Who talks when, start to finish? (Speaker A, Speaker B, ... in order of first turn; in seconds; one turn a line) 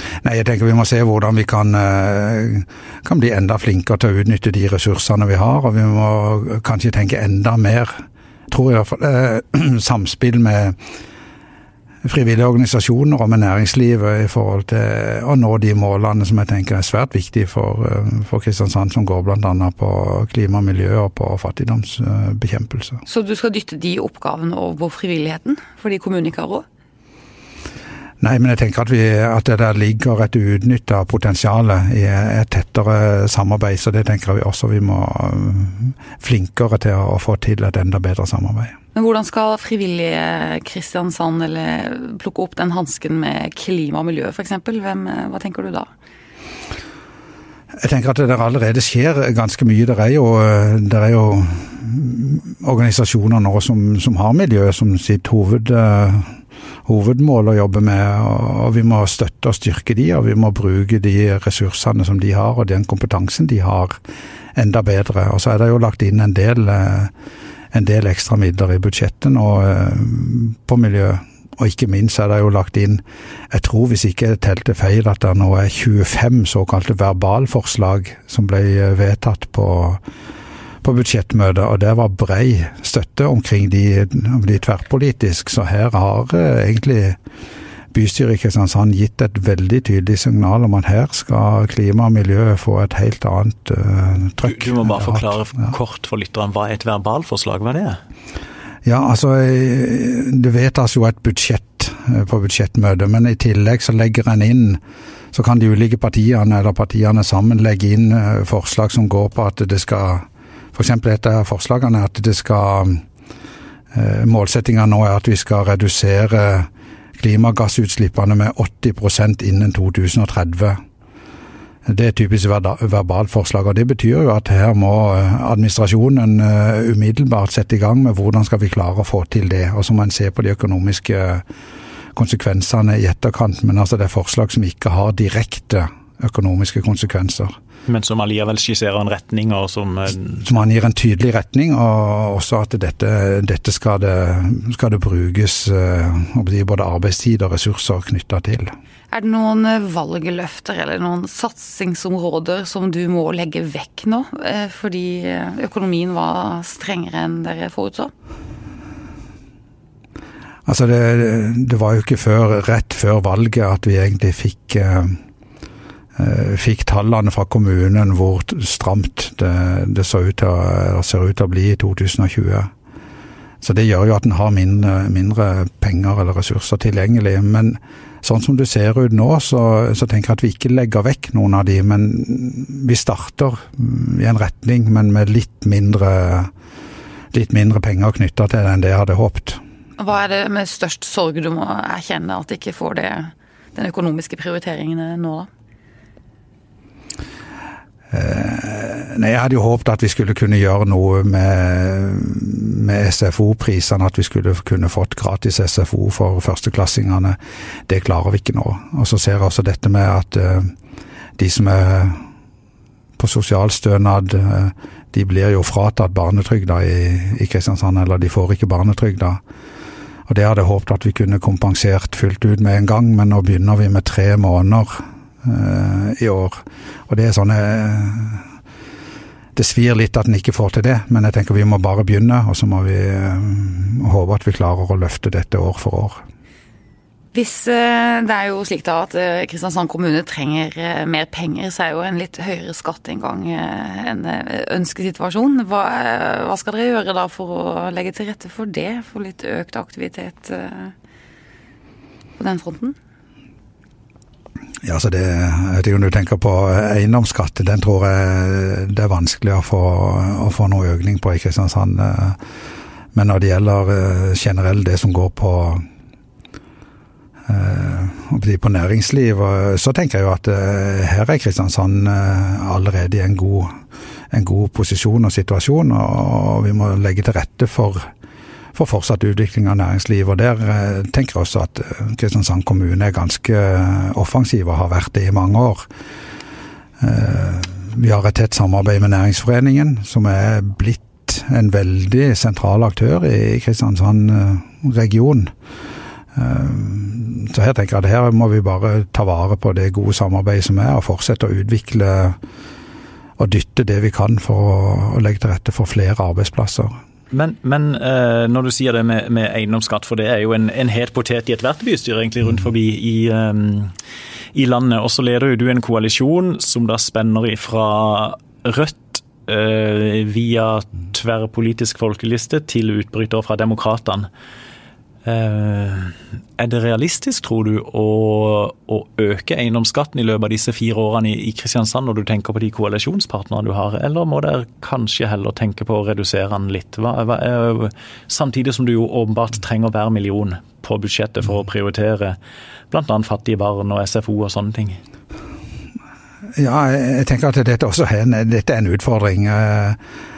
Speaker A: 0.2-10.8
Speaker A: 12.0-23.0
Speaker B: 23.1-26.6
Speaker A: 28.2-38.8
Speaker B: 39.0-45.9
Speaker A: 47.7-64.0
Speaker A: 64.5-67.1
Speaker A: 67.7-80.0
Speaker A: 80.8-87.2
Speaker A: 87.9-95.7
Speaker C: 94.4-98.0
Speaker A: 98.8-104.8
Speaker A: 105.3-113.0
Speaker A: 113.9-120.8
Speaker A: 121.9-131.4
Speaker A: 132.2-137.6
Speaker C: 137.9-140.5
Speaker A: 140.4-148.7
Speaker B: 149.1-158.1
Speaker A: 160.7-165.2
Speaker A: 166.2-172.7
Speaker A: 173.6-186.5
Speaker A: 187.3-189.6
Speaker B: 190.0-195.5
Speaker A: 198.1-210.7
Speaker A: 211.4-212.2
Speaker A: 213.2-219.4
Speaker A: 220.3-228.4
Speaker A: 229.6-236.2
Speaker B: 237.3-250.9
Speaker B: 252.4-253.0
Speaker A: 254.8-262.4
Speaker A: 263.1-265.9
Speaker A: 267.5-273.7
Speaker A: 274.3-278.1
Speaker A: 278.8-285.9
Speaker A: 287.0-295.5
Speaker A: 296.3-302.4
Speaker A: 303.4-306.9
Speaker C: 307.3-313.9
Speaker C: 314.5-324.3
Speaker C: 325.2-342.4
Speaker C: 342.9-345.0
Speaker A: 346.6-350.0